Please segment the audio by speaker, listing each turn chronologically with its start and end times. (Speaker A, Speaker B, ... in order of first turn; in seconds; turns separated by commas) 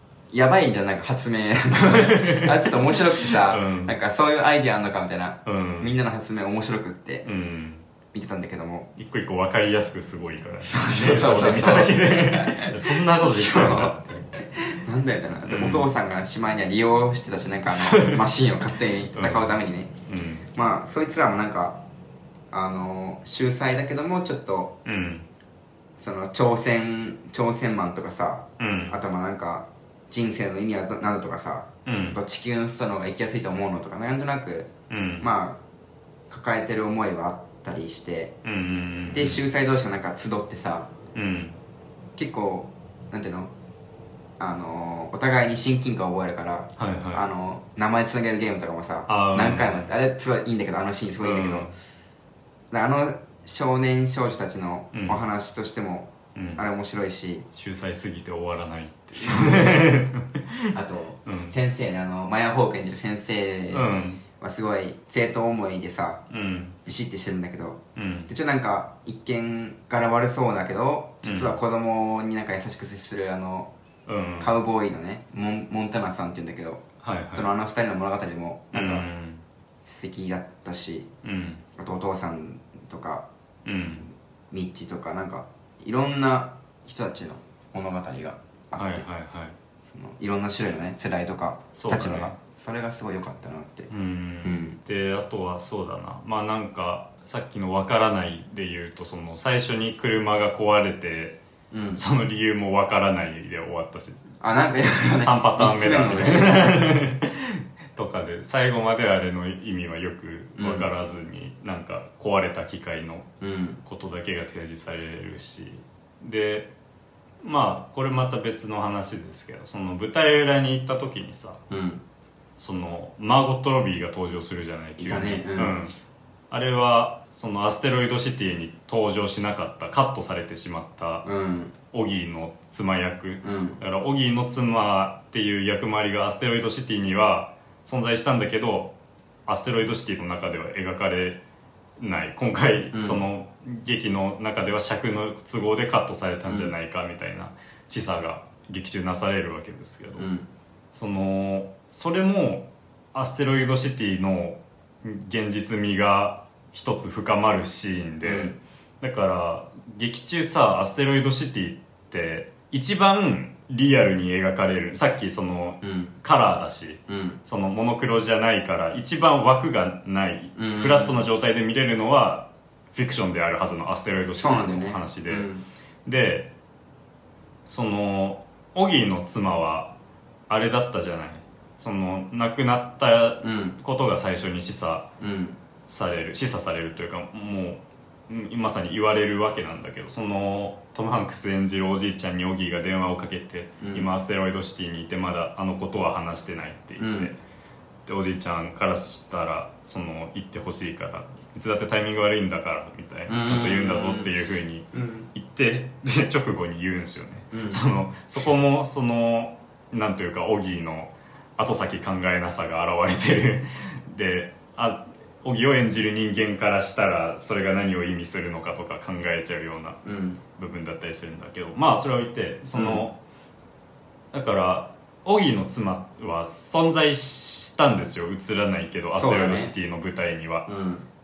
Speaker A: 0.3-7.2, Speaker B: 1.7-4.0, Speaker B: 5.5-5.9, Speaker B: 7.2-7.8, Speaker A: 8.1-8.9, Speaker B: 9.0-14.4, Speaker A: 10.6-14.0, Speaker A: 14.7-19.9, Speaker B: 15.4-15.9, Speaker B: 17.7-18.3, Speaker B: 19.1-19.6, Speaker B: 20.1-20.4, Speaker A: 20.5-21.8, Speaker A: 22.5-24.8, Speaker B: 24.9-25.3, Speaker A: 26.0-35.6, Speaker B: 28.6-29.0, Speaker B: 31.9-32.2, Speaker B: 34.9-35.3, Speaker A: 36.3-38.3, Speaker B: 38.4-39.4, Speaker A: 39.1-40.9, Speaker B: 41.1-41.6, Speaker A: 42.2-43.5, Speaker A: 44.4-51.7, Speaker B: 46.8-47.2, Speaker B: 49.1-49.9, Speaker B: 51.2-51.7, Speaker A: 52.7-57.5, Speaker B: 54.9-55.2, Speaker B: 56.4-56.6, Speaker B: 57.5-60.7, Speaker A: 59.2-60.0, Speaker A: 60.7-66.2, Speaker B: 61.3-61.5, Speaker B: 63.7-64.2, Speaker B: 66.3-66.8, Speaker A: 66.9-73.7, Speaker B: 68.0-68.3, Speaker B: 71.2-71.6, Speaker B: 74.1-74.5, Speaker A: 74.4-76.8, Speaker B: 77.0-77.5, Speaker A: 77.3-79.0, Speaker B: 78.7-79.4, Speaker A: 79.8-81.1, Speaker B: 81.2-81.6, Speaker A: 81.8-83.3, Speaker B: 83.7-84.1, Speaker A: 84.5-89.1, Speaker B: 88.8-89.6, Speaker A: 89.8-93.9, Speaker B: 91.8-92.4, Speaker B: 93.9-101.4, Speaker A: 94.4-94.8, Speaker A: 101.7-102.0, Speaker B: 102.0-104.2, Speaker A: 104.4-107.0, Speaker B: 105.0-113.3, Speaker A: 110.6-110.9, Speaker A: 113.4-113.8, Speaker B: 113.8-116.7, Speaker B: 117.4-121.6, Speaker A: 121.7-122.0, Speaker B: 122.6-125.9, Speaker A: 125.0-125.8, Speaker B: 126.5-131.3, Speaker A: 131.2-131.7, Speaker B: 131.9-138.9, Speaker A: 133.4-133.8, Speaker B: 139.5-141.4, Speaker B: 142.0-150.3, Speaker A: 142.9-143.2, Speaker A: 146.5-146.7, Speaker A: 150.2-150.5, Speaker B: 150.9-175.5, Speaker A: 158.2-158.6, Speaker A: 165.8-166.1, Speaker A: 167.1-167.4, Speaker A: 170.6-171.2, Speaker A: 174.4-175.7, Speaker B: 176.1-176.5, Speaker B: 177.7-179.9, Speaker B: 180.5-185.1, Speaker A: 183.4-183.8, Speaker A: 185.2-185.6, Speaker B: 185.9-197.4, Speaker A: 193.8-194.1, Speaker A: 197.0-197.3, Speaker B: 198.1-220.0, Speaker A: 203.3-204.3, Speaker A: 204.9-205.3, Speaker A: 207.5-207.8, Speaker A: 220.1-220.4, Speaker B: 220.5-223.2, Speaker A: 222.7-223.0, Speaker B: 224.3-230.7, Speaker A: 229.2-229.7, Speaker A: 230.7-231.1